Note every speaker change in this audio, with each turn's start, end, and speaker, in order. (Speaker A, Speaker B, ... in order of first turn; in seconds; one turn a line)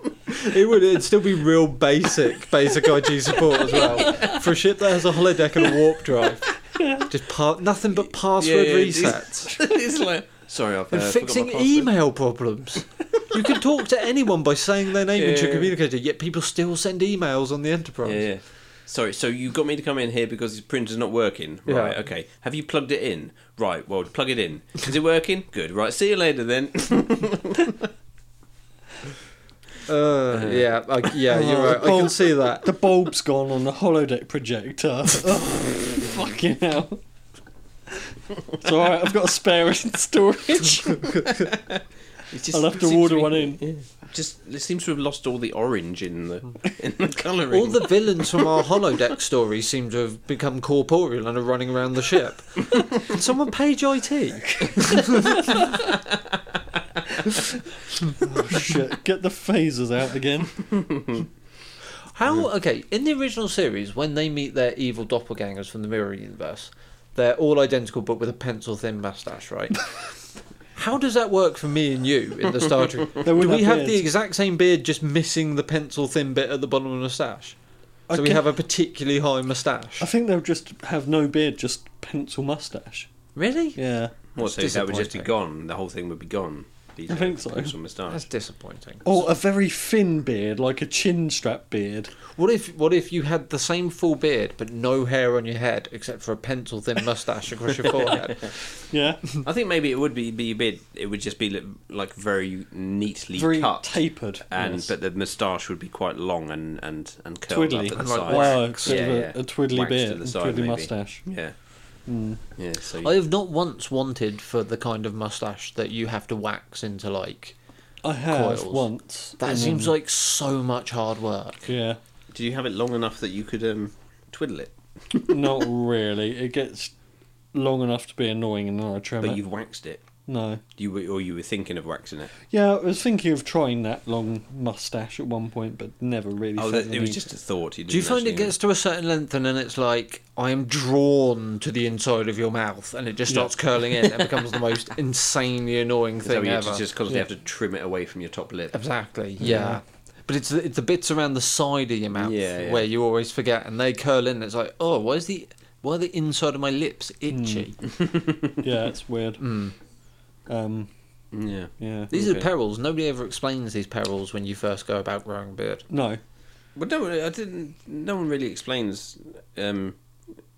Speaker A: 0.3-9.6
Speaker B: 4.0-4.3
Speaker B: 8.4-11.9
Speaker A: 10.9-18.2
Speaker B: 15.1-15.7
Speaker B: 18.0-27.9
Speaker A: 21.7-22.0
Speaker A: 29.9-32.7
Speaker B: 30.3-30.6
Speaker C: 31.3-37.0
Speaker C: 37.9-41.4
Speaker B: 41.3-48.6
Speaker C: 42.5-43.6
Speaker A: 47.5-55.7
Speaker C: 54.5-55.6
Speaker B: 55.7-56.6
Speaker C: 58.2-60.7
Speaker B: 60.7-61.2
Speaker A: 62.1-69.9
Speaker A: 70.7-77.5
Speaker C: 73.2-74.1
Speaker C: 78.1-78.5
Speaker A: 78.1-80.0
Speaker C: 80.0-83.1
Speaker A: 83.3-83.8
Speaker C: 83.8-84.1
Speaker A: 84.3-85.3
Speaker B: 84.3-88.2
Speaker C: 87.1-87.7
Speaker A: 88.1-89.3
Speaker C: 89.0-92.1
Speaker A: 92.3-98.5
Speaker C: 98.9-99.4
Speaker B: 99.4-111.5
Speaker C: 103.3-104.9
Speaker C: 107.5-111.2
Speaker A: 107.9-109.1
Speaker C: 112.1-112.4
Speaker B: 112.6-113.2
Speaker A: 113.0-117.5
Speaker C: 118.0-119.9
Speaker A: 118.2-118.9
Speaker A: 119.4-121.6
Speaker C: 121.7-122.0
Speaker B: 122.3-125.5
Speaker C: 125.3-126.9
Speaker C: 127.5-129.4
Speaker B: 129.2-130.0
Speaker C: 130.3-130.6
Speaker B: 130.8-132.3
Speaker C: 132.5-137.2
Speaker B: 136.6-138.5
Speaker A: 137.9-146.8
Speaker B: 146.2-148.7
Speaker A: 148.7-157.8
Speaker C: 149.4-149.8
Speaker B: 152.2-152.8
Speaker C: 157.3-157.7
Speaker B: 157.9-158.5
Speaker C: 158.5-159.5
Speaker A: 159.4-159.7
Speaker C: 160.5-160.9
Speaker B: 161.3-162.5
Speaker C: 161.8-162.1
Speaker A: 162.1-165.8
Speaker C: 165.9-166.2
Speaker B: 166.8-170.0